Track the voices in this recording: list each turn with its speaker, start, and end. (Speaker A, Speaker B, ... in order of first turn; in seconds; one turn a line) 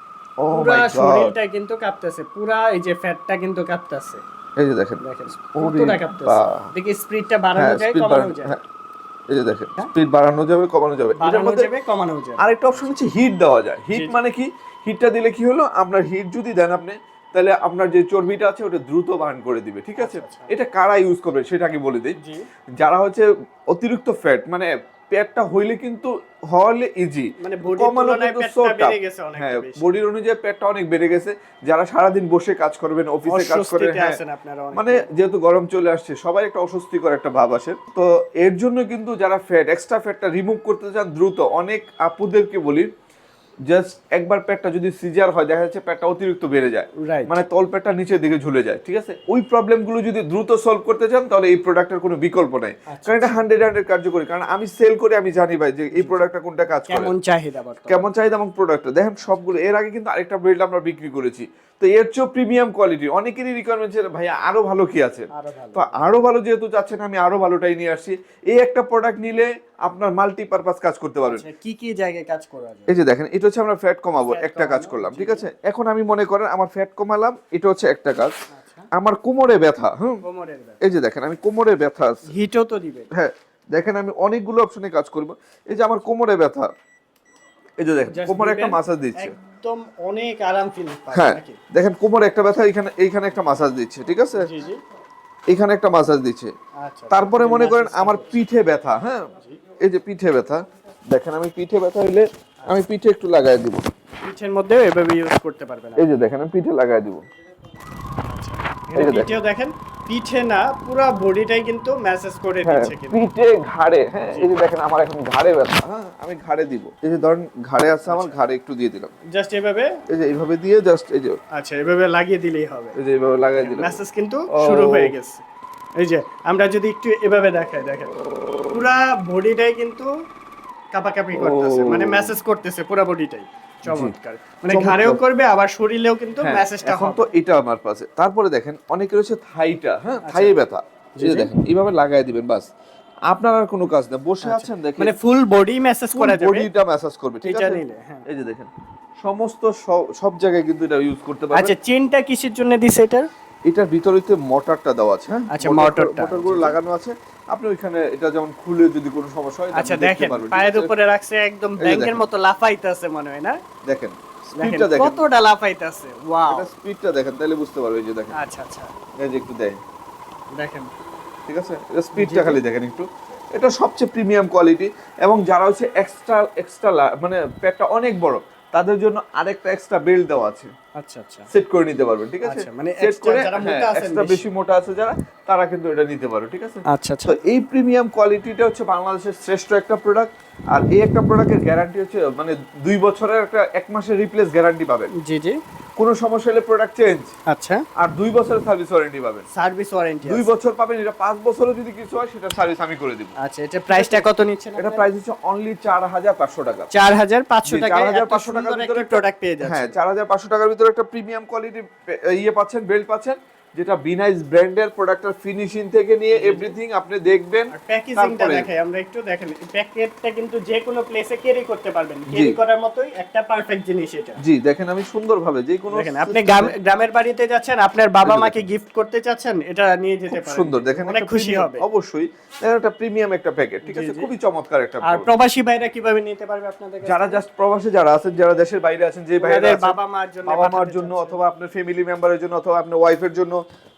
Speaker A: 0.4-1.3
Speaker B: 0.5-4.2
Speaker A: 4.6-5.0
Speaker B: 5.0-8.6
Speaker A: 5.6-6.7
Speaker A: 7.6-8.6
Speaker A: 9.3-11.7
Speaker B: 11.2-12.9
Speaker A: 12.4-22.2
Speaker B: 20.0-20.5
Speaker B: 22.2-22.4
Speaker A: 22.8-34.2
Speaker B: 27.4-29.8
Speaker B: 33.3-35.1
Speaker A: 34.7-42.9
Speaker A: 43.7-57.1
Speaker B: 47.0-47.4
Speaker B: 52.9-53.4
Speaker B: 55.9-56.2
Speaker B: 56.9-58.1
Speaker A: 57.9-71.4
Speaker B: 59.2-59.5
Speaker B: 65.3-66.0
Speaker B: 71.3-73.0
Speaker A: 72.9-78.3
Speaker B: 74.2-75.5
Speaker B: 78.5-78.9
Speaker A: 78.9-80.2
Speaker B: 80.2-80.8
Speaker A: 80.8-82.3
Speaker B: 82.3-83.1
Speaker A: 83.1-86.7
Speaker A: 87.8-89.3
Speaker B: 88.1-91.6
Speaker A: 91.1-94.5
Speaker B: 94.4-94.8
Speaker A: 95.5-96.5
Speaker B: 96.8-98.4
Speaker A: 97.1-103.8
Speaker B: 104.2-106.1
Speaker A: 106.0-107.2
Speaker B: 108.3-113.2
Speaker A: 109.0-109.4
Speaker A: 112.7-119.1
Speaker B: 118.1-118.4
Speaker B: 119.3-119.9
Speaker A: 120.1-121.4
Speaker B: 121.5-123.0
Speaker A: 123.0-124.0
Speaker B: 123.6-125.4
Speaker A: 124.5-125.2
Speaker B: 126.0-128.1
Speaker A: 128.1-128.8
Speaker B: 128.7-130.1
Speaker B: 130.9-137.2
Speaker A: 131.3-132.3
Speaker A: 133.9-134.2
Speaker A: 134.7-135.2
Speaker A: 136.4-142.7
Speaker B: 140.2-140.5
Speaker B: 141.2-141.5
Speaker A: 143.3-145.1
Speaker B: 144.4-146.7
Speaker A: 146.1-148.7
Speaker B: 147.4-148.2
Speaker A: 149.2-151.7
Speaker B: 151.5-153.2
Speaker A: 153.7-160.9
Speaker B: 155.5-156.8
Speaker B: 159.7-163.6
Speaker A: 161.8-162.2
Speaker A: 163.9-165.2
Speaker B: 164.6-166.7
Speaker A: 166.5-168.3
Speaker B: 168.3-168.9
Speaker A: 169.2-169.8
Speaker B: 170.6-170.9
Speaker A: 171.5-180.7
Speaker B: 172.2-172.6
Speaker B: 181.0-181.5
Speaker A: 181.5-195.1
Speaker B: 182.4-184.4
Speaker B: 186.9-187.4
Speaker B: 195.2-195.6
Speaker A: 196.0-197.3
Speaker B: 197.5-197.8
Speaker A: 198.0-199.5
Speaker B: 199.5-200.5
Speaker A: 200.2-203.3
Speaker B: 203.4-205.1
Speaker A: 203.9-204.2
Speaker A: 204.8-206.9
Speaker B: 206.9-209.9
Speaker A: 207.7-218.7
Speaker B: 216.3-216.8
Speaker B: 217.7-224.4
Speaker A: 222.3-222.6
Speaker A: 224.4-226.7
Speaker B: 225.9-231.8
Speaker A: 228.2-228.7
Speaker A: 230.3-235.3
Speaker B: 233.9-234.3
Speaker B: 235.0-237.4
Speaker A: 237.1-243.6
Speaker B: 239.4-241.4